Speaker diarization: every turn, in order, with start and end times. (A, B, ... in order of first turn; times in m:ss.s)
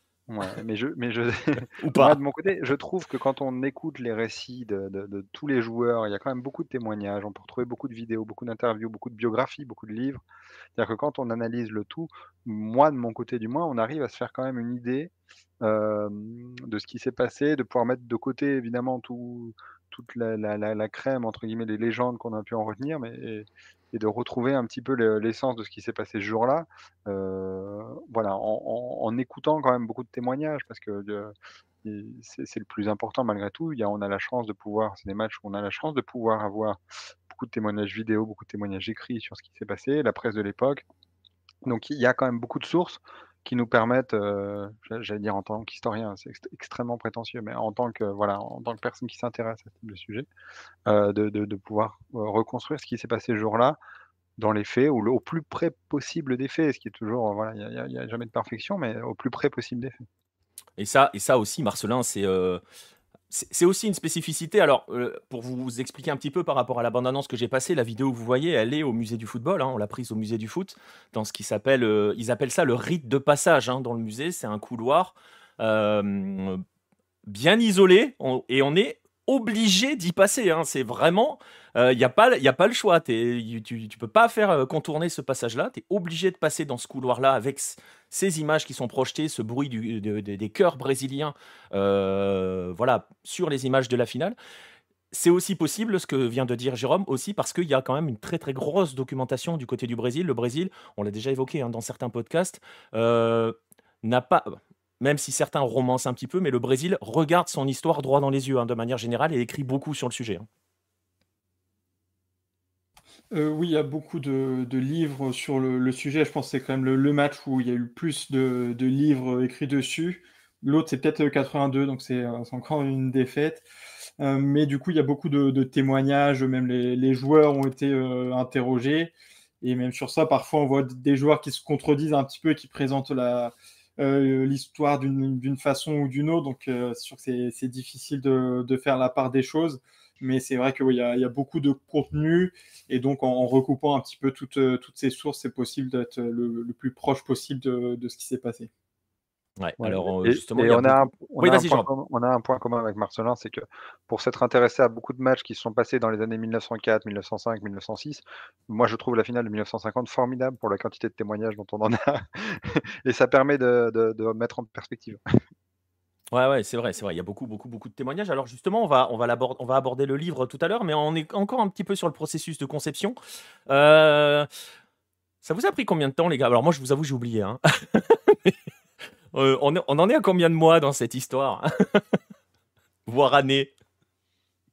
0:00.3-0:10.2 A
0:01.8-0:02.2 B
0:10.8-0:15.1 A
0:15.6-0:36.8 A
0:37.3-0:40.8 A
0:41.6-0:50.3 A
0:50.9-0:53.8 A
0:54.4-1:00.0 A
1:00.8-1:02.6 B
1:03.3-1:16.6 B
1:17.3-1:34.4 B
1:35.1-1:50.5 B
1:53.3-2:03.6 C
2:04.2-2:28.7 C
2:29.6-2:31.9 B
2:29.8-2:45.4 A
2:46.3-2:53.2 B
2:53.7-2:54.5 B
2:55.4-2:58.6 B
2:59.3-3:02.2 B
3:03.1-3:03.7 B